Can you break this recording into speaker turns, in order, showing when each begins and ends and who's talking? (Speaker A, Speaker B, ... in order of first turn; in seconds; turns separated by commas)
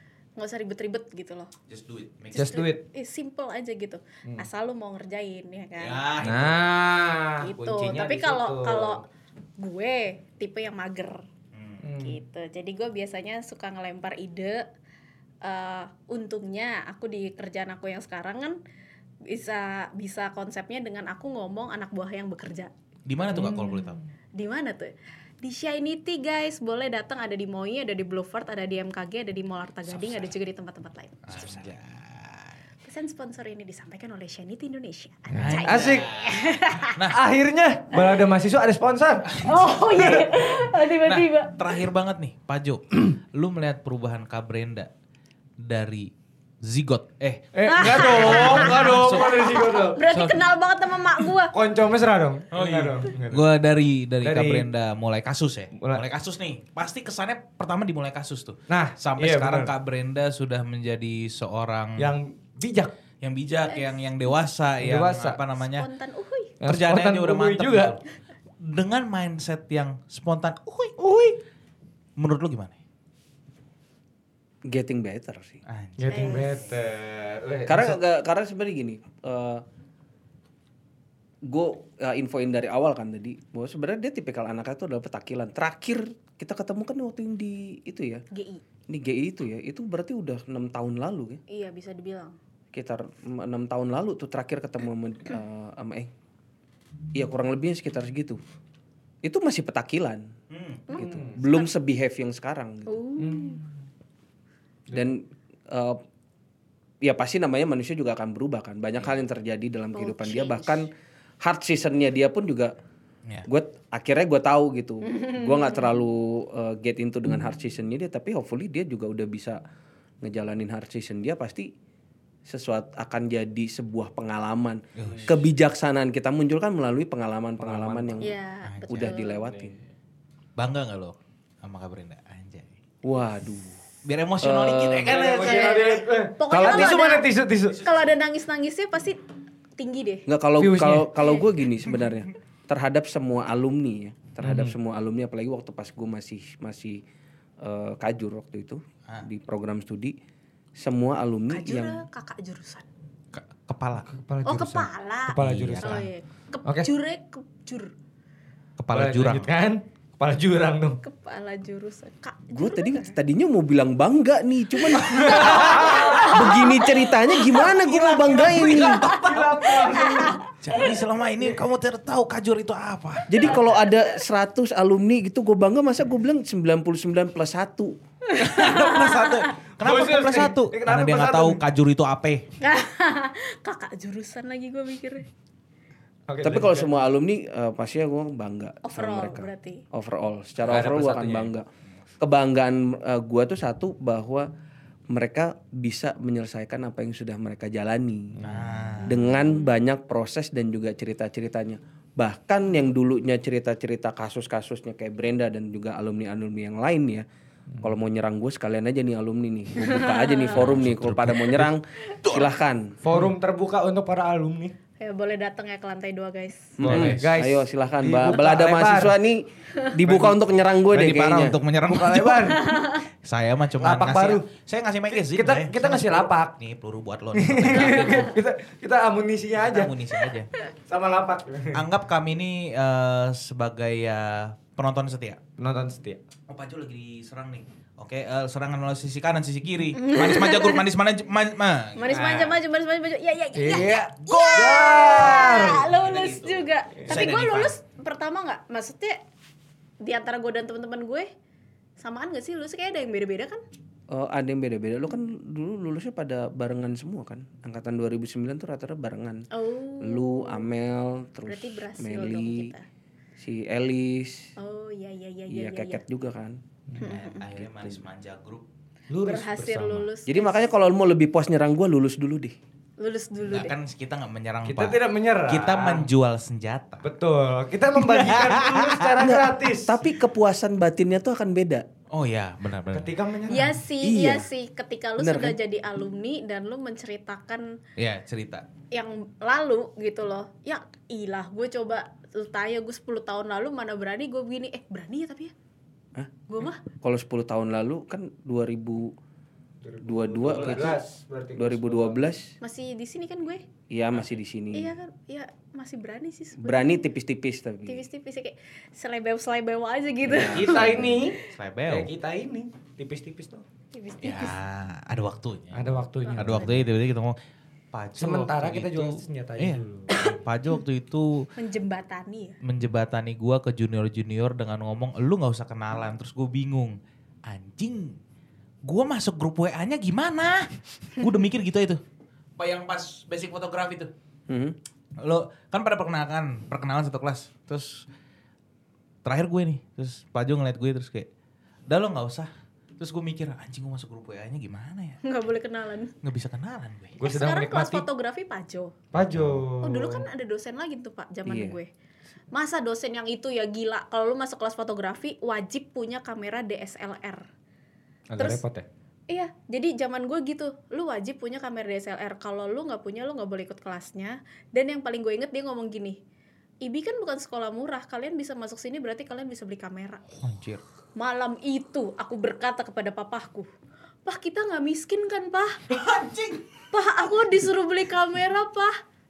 Speaker A: 0.4-1.5, Speaker B: 1.7-2.7, Speaker C: 2.3-2.8, Speaker A: 2.4-6.0, Speaker B: 5.8-6.6, Speaker C: 6.2-9.0, Speaker A: 7.4-9.0, Speaker A: 9.6-11.2, Speaker B: 11.5-11.8, Speaker C: 11.8-12.2, Speaker A: 12.0-14.7, Speaker A: 15.4-18.6, Speaker A: 19.3-22.7, Speaker B: 23.1-24.0, Speaker C: 23.3-23.8, Speaker A: 24.4-31.7, Speaker B: 29.9-30.3, Speaker B: 31.3-32.5, Speaker A: 32.9-37.0, Speaker C: 35.3-36.1, Speaker B: 35.4-37.2, Speaker C: 37.1-39.4, Speaker A: 39.4-41.8, Speaker B: 41.0-44.9, Speaker B: 45.6-46.1, Speaker B: 46.6-50.4, Speaker C: 47.5-50.0, Speaker A: 47.7-51.5, Speaker C: 51.5-53.5, Speaker B: 52.5-62.1, Speaker C: 54.2-54.7, Speaker C: 58.7-59.7, Speaker C: 62.0-63.0, Speaker B: 63.2-65.9, Speaker A: 63.7-64.0, Speaker C: 64.8-65.4, Speaker A: 65.8-66.5, Speaker C: 66.6-68.0, Speaker B: 66.6-68.0, Speaker B: 68.6-71.0, Speaker C: 71.0-71.4, Speaker B: 72.2-72.8, Speaker D: 74.7-75.6, Speaker B: 75.7-76.5, Speaker C: 76.0-78.0, Speaker A: 76.1-76.7, Speaker D: 77.7-79.6, Speaker D: 81.5-88.2, Speaker A: 88.3-88.6, Speaker D: 88.9-91.4, Speaker A: 91.5-92.4, Speaker D: 92.7-96.1, Speaker D: 97.1-98.4, Speaker D: 99.2-100.3, Speaker B: 100.5-100.8, Speaker A: 100.9-101.7, Speaker D: 100.9-103.0, Speaker C: 101.0-101.4, Speaker A: 102.9-103.6, Speaker C: 103.2-103.7, Speaker D: 104.9-106.0, Speaker D: 107.0-110.9, Speaker A: 109.9-110.8, Speaker D: 111.4-112.7, Speaker D: 113.5-119.6, Speaker A: 115.1-115.7, Speaker D: 120.2-121.7, Speaker D: 122.5-128.3, Speaker B: 125.0-125.4, Speaker C: 127.6-128.3, Speaker A: 128.2-129.5, Speaker B: 128.7-129.1, Speaker D: 128.9-129.8, Speaker B: 130.6-132.7, Speaker D: 133.0-133.8, Speaker B: 134.1-136.0, Speaker D: 134.4-135.3, Speaker C: 135.0-137.8, Speaker A: 135.4-137.3, Speaker D: 136.5-137.1, Speaker A: 137.8-139.2, Speaker A: 139.8-140.2, Speaker D: 140.3-147.0, Speaker C: 140.6-141.2, Speaker C: 144.4-144.7, Speaker D: 147.6-150.2, Speaker D: 150.8-152.0, Speaker A: 151.5-152.9, Speaker B: 153.3-154.1, Speaker C: 154.1-156.1, Speaker A: 154.4-157.9, Speaker B: 155.4-156.1, Speaker B: 158.8-159.5, Speaker C: 158.9-161.0, Speaker A: 161.0-163.2, Speaker D: 162.5-169.1, Speaker A: 165.1-167.7, Speaker C: 165.2-166.3, Speaker B: 165.2-166.7, Speaker B: 167.5-169.9, Speaker A: 168.7-170.9, Speaker C: 169.0-170.8, Speaker B: 170.6-173.6, Speaker D: 173.3-177.9, Speaker A: 178.3-179.6, Speaker B: 178.4-182.4, Speaker C: 179.8-181.6, Speaker A: 182.6-185.3, Speaker C: 186.3-187.0, Speaker D: 186.4-191.7, Speaker A: 188.8-189.8, Speaker C: 190.6-191.5, Speaker D: 192.2-194.5, Speaker D: 195.1-198.4, Speaker C: 198.4-199.0, Speaker B: 198.4-199.2, Speaker D: 199.1-207.2, Speaker A: 199.1-199.8, Speaker D: 207.8-212.9, Speaker A: 209.8-210.6, Speaker B: 210.5-212.5, Speaker C: 213.0-214.7, Speaker A: 215.0-216.8, Speaker D: 216.8-221.6, Speaker C: 216.8-219.1, Speaker B: 216.9-217.3, Speaker B: 220.1-228.3, Speaker C: 221.9-222.7, Speaker A: 222.6-223.0, Speaker C: 223.8-224.5, Speaker C: 225.1-226.5, Speaker C: 227.3-229.9, Speaker B: 229.6-230.5, Speaker C: 230.9-231.8, Speaker B: 231.7-235.4, Speaker C: 235.6-236.2, Speaker B: 236.5-242.2, Speaker A: 240.0-240.8, Speaker A: 242.0-249.2, Speaker C: 242.1-242.6, Speaker C: 243.6-245.8, Speaker B: 244.2-247.8, Speaker C: 247.0-247.3, Speaker A: 250.0-251.3, Speaker A: 252.0-253.6, Speaker D: 254.1-259.4, Speaker A: 259.5-260.6, Speaker D: 260.0-262.7, Speaker A: 261.5-262.9, Speaker D: 263.4-264.5, Speaker A: 264.6-266.0, Speaker D: 265.5-266.6, Speaker B: 267.0-268.6, Speaker A: 267.0-267.5, Speaker C: 269.1-270.1, Speaker A: 269.2-270.5, Speaker D: 270.3-272.6, Speaker A: 273.0-273.8, Speaker B: 273.5-277.1, Speaker C: 274.6-276.1, Speaker C: 277.0-280.0, Speaker B: 278.0-279.1, Speaker D: 279.2-281.9, Speaker B: 282.1-283.1, Speaker C: 282.9-283.8, Speaker A: 283.5-287.8, Speaker D: 284.0-284.5, Speaker D: 285.2-285.6, Speaker B: 288.0-288.6, Speaker A: 288.9-295.5, Speaker A: 296.5-296.8, Speaker D: 297.0-299.1, Speaker C: 299.8-302.2, Speaker D: 300.0-301.0, Speaker B: 300.5-300.9, Speaker D: 301.6-302.5, Speaker A: 302.6-303.6, Speaker D: 303.9-304.9, Speaker A: 304.7-307.0, Speaker D: 306.6-308.0, Speaker A: 307.9-311.2, Speaker C: 310.3-313.6, Speaker B: 310.6-312.1, Speaker A: 313.9-314.6, Speaker B: 314.2-317.4, Speaker C: 315.7-316.7, Speaker A: 316.2-316.9, Speaker B: 317.9-321.5, Speaker C: 318.2-320.4, Speaker A: 321.6-322.6, Speaker B: 322.6-328.2, Speaker B: 328.9-332.0, Speaker B: 332.6-334.1, Speaker D: 334.5-334.8, Speaker B: 335.2-338.1, Speaker B: 339.2-341.3, Speaker B: 341.9-345.2, Speaker A: 345.2-346.1, Speaker B: 346.2-347.2, Speaker C: 347.2-348.1, Speaker A: 347.2-348.9, Speaker C: 349.1-350.3, Speaker B: 349.3-349.6, Speaker A: 349.8-351.9, Speaker D: 351.5-351.8, Speaker A: 352.5-357.5, Speaker C: 358.3-358.9, Speaker A: 358.4-358.6, Speaker A: 359.3-366.2, Speaker A: 366.8-370.2, Speaker B: 370.4-370.8, Speaker A: 371.2-373.7, Speaker A: 374.2-375.8, Speaker B: 375.9-376.6, Speaker A: 376.9-379.0